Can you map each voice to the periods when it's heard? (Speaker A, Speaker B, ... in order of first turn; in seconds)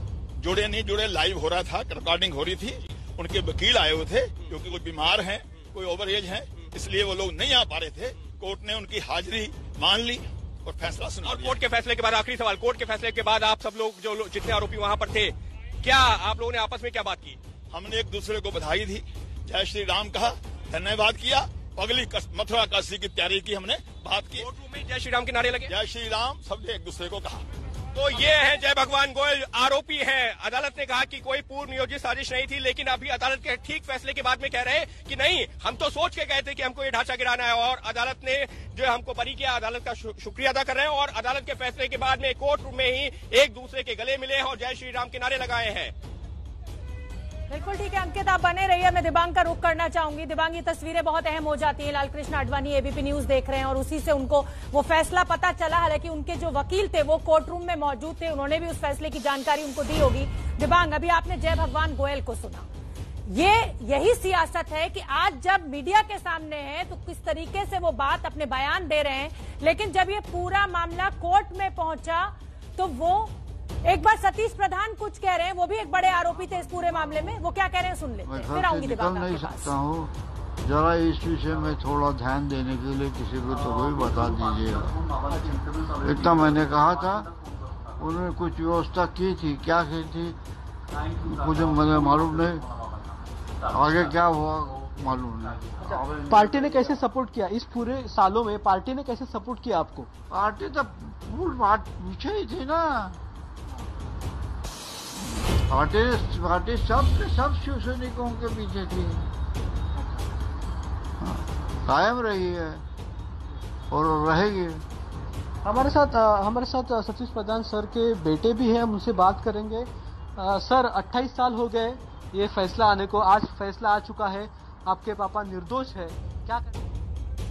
Speaker A: 0.4-11.6, 17.7-24.4, 25.7-27.4
Speaker B: 11.2-17.4, 24.4-25.7, 27.9-45.9
Speaker C: 47.5-62.6, 63.3-73.3, 73.8-79.8
Speaker D: 78.2-87.3, 88.0-90.3, 91.2-92.7, 93.7-96.7, 100.3-103.2, 105.4-109.2, 111.2-112.8, 113.9-114.8
Speaker E: 96.3-100.1, 115.6-126.7